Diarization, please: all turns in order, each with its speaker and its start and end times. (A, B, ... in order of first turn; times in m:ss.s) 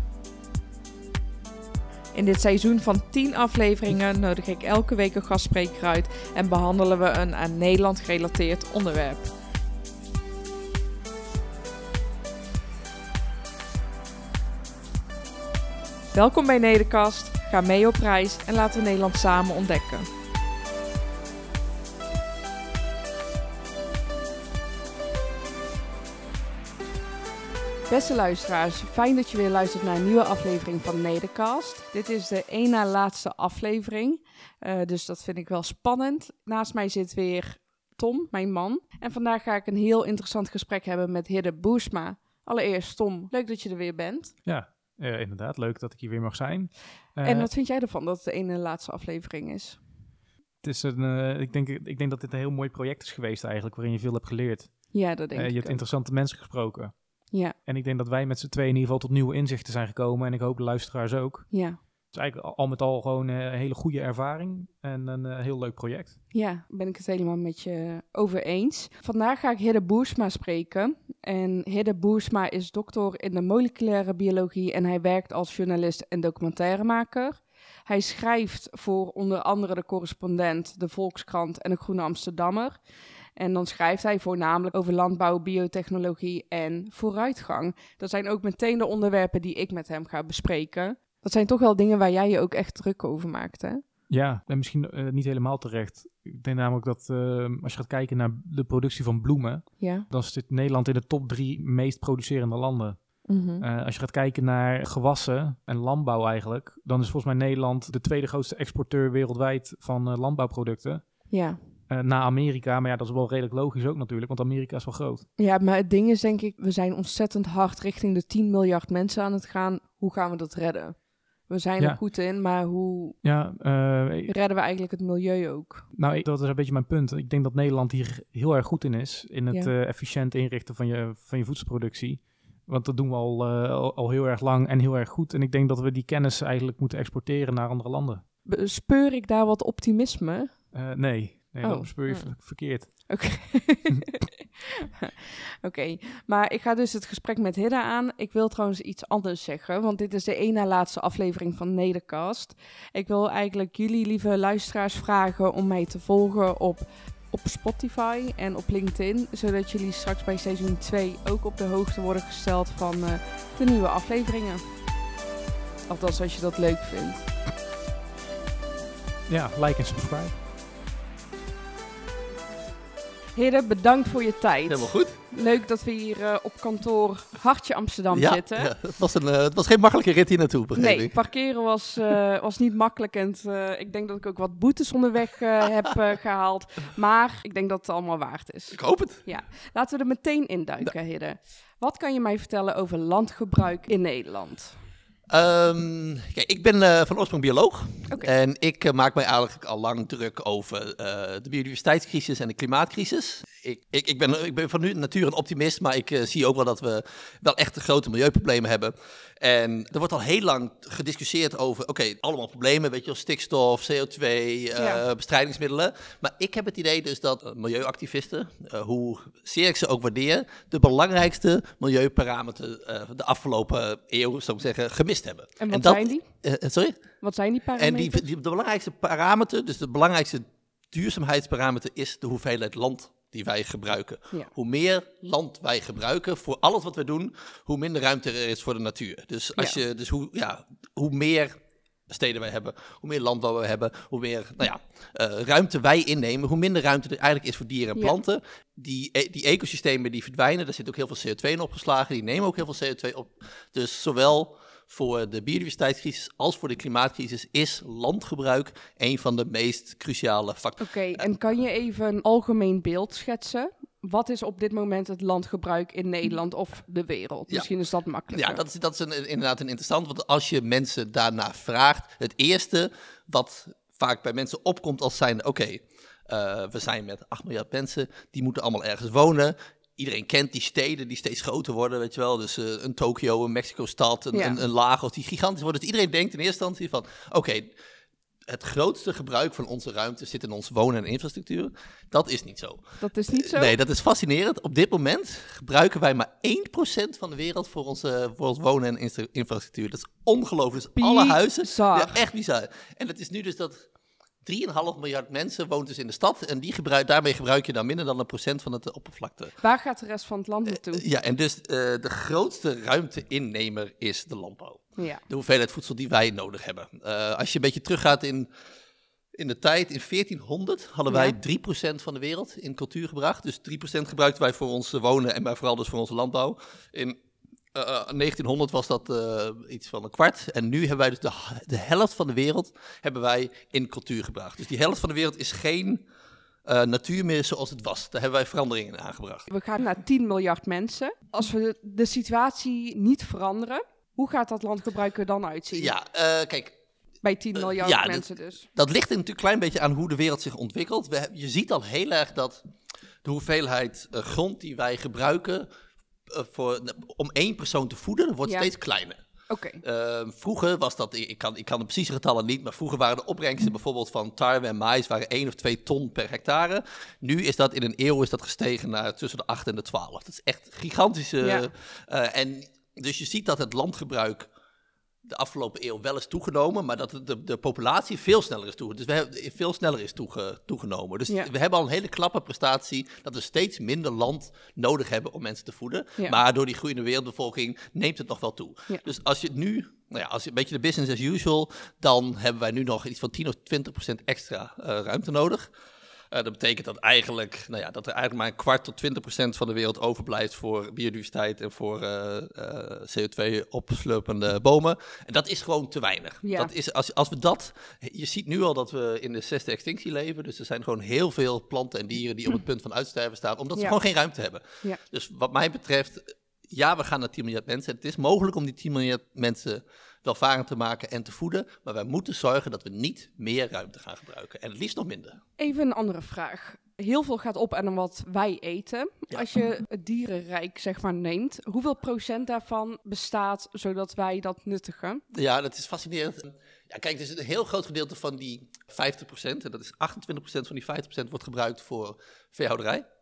0:02.1-0:09.3 A
0:16.1-0:20.1 A
0:27.9-0:44.4 A
0:44.4-0:47.5 B
0:47.2-0:49.8 A
0:50.6-1:06.2 B
0:54.9-0:55.8 A
1:01.5-1:01.8 A
1:06.3-1:22.8 A
1:23.4-1:33.8 A
1:34.1-1:55.3 B
1:39.8-1:40.1 A
1:43.3-1:43.6 A
1:51.3-1:51.6 A
1:55.4-2:03.2 A
2:03.2-2:04.3 B
2:04.3-2:05.9 A
2:05.9-2:18.2 B
2:18.4-2:20.7 A
2:20.7-2:23.5 B
2:21.6-2:24.4 A
2:25.6-2:44.6 A
2:45.9-2:47.3 A
2:49.3-2:50.4 B
2:53.4-2:58.7 A
2:54.7-2:55.2 C
2:58.1-3:01.2 C
3:00.8-3:14.8 A
3:08.7-3:09.2 C
3:15.3-3:47.0 C
3:34.8-3:35.0 A
3:45.6-3:46.3 A
3:47.2-3:48.2 A
3:47.8-4:01.6 C
4:02.1-4:21.3 C
4:20.8-4:28.6 A
4:28.3-4:47.7 C
4:44.3-4:44.6 A
4:48.5-5:03.9 C
4:53.0-4:53.8 A
5:01.0-5:02.2 A
5:04.4-5:09.6 C
5:09.6-5:11.0 A
5:10.7-5:18.5 C
5:15.0-5:15.2 A
5:19.4-5:27.2 C
5:21.1-5:21.4 A
5:27.7-5:36.0 C
5:36.6-5:39.5 C
5:39.5-5:45.9 A
5:45.7-5:46.8 C
5:47.2-5:48.7 A
5:47.6-5:52.6 C
5:53.2-5:55.7 C
5:56.3-5:59.2 C
5:58.4-5:58.7 A
5:59.5-5:59.8 A
5:59.8-6:14.5 C
6:11.4-6:11.7 A
6:15.2-6:35.7 C
6:36.3-7:05.4 C
6:46.4-6:46.7 A
7:05.6-7:15.2 A
7:15.3-7:23.1 C